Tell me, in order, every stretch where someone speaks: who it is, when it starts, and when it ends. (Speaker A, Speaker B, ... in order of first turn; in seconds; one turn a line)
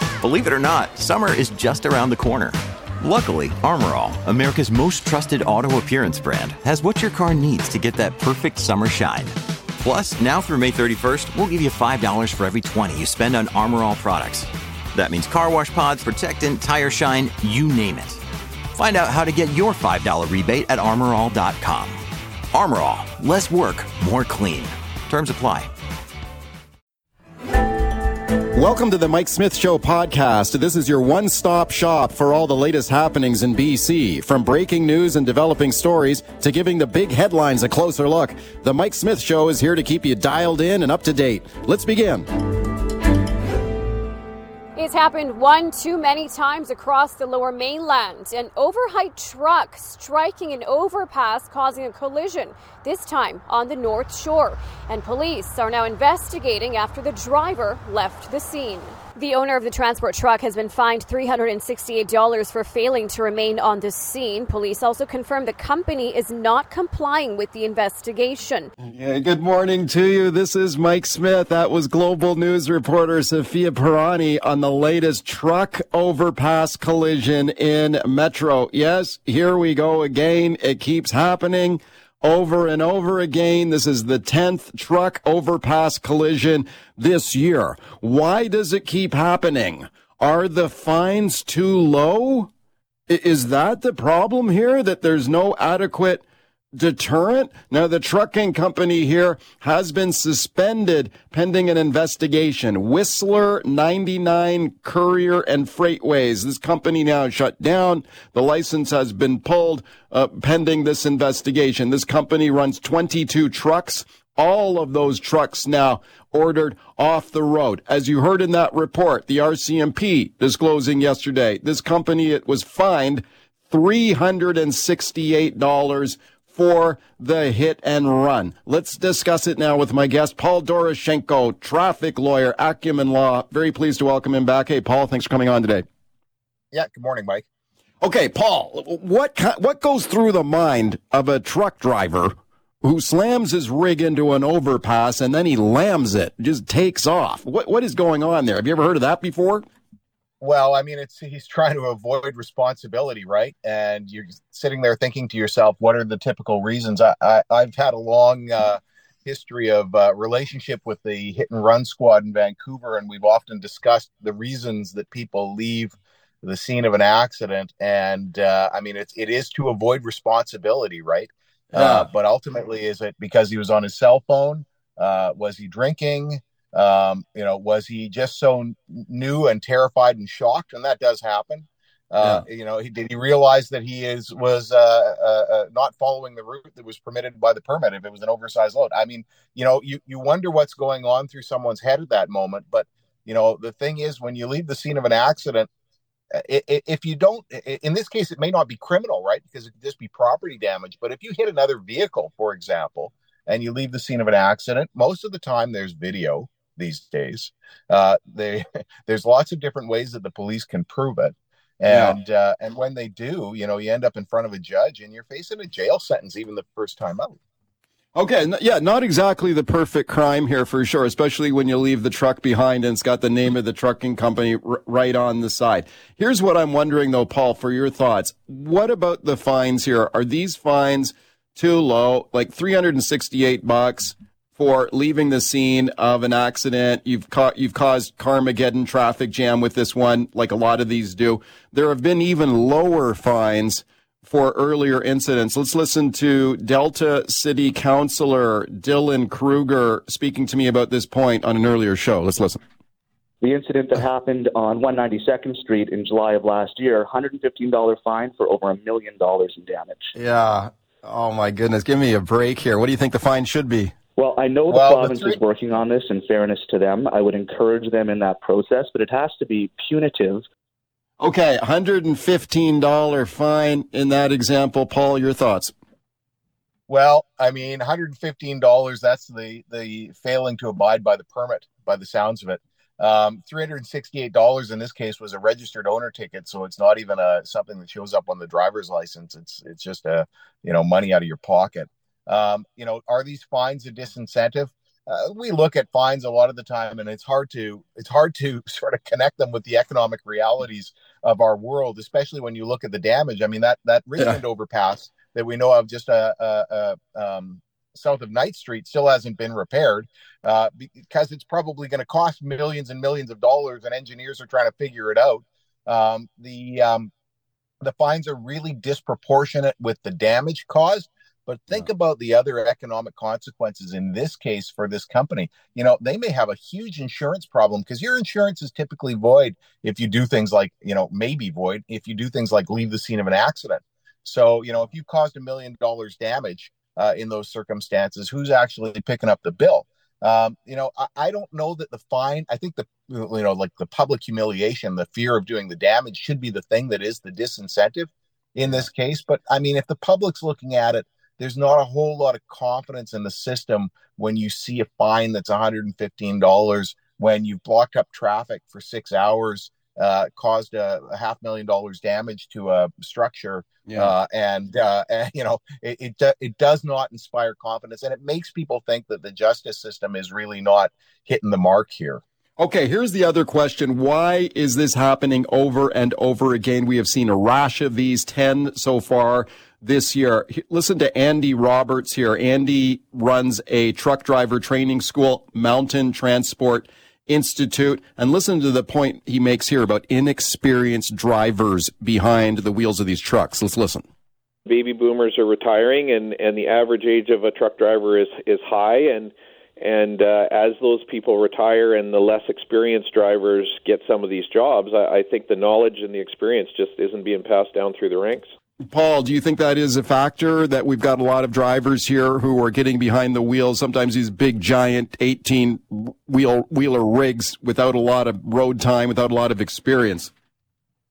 Speaker A: 0.2-18.2
Speaker A: 18.7-25.7
Speaker B: 28.5-42.3
Speaker C: 44.8-68.7
Speaker B: 68.8-92.5
Speaker B: 93.1-135.8
Speaker D: 136.7-137.4
Speaker B: 138.0-149.7
Speaker D: 150.4-195.7
Speaker B: 171.7-172.1
Speaker D: 196.3-217.4
Speaker B: 211.8-212.1
Speaker B: 218.1-252.6
Speaker E: 253.4-260.1
Speaker B: 260.1-263.9
Speaker E: 264.1-270.4
Speaker D: 264.7-265.4
Speaker B: 271.2-275.7
Speaker D: 276.9-317.1
Speaker D: 317.8-372.2
Speaker B: 363.9-364.1
Speaker B: 372.6-394.1
Speaker F: 394.6-408.5
Speaker B: 408.8-420.3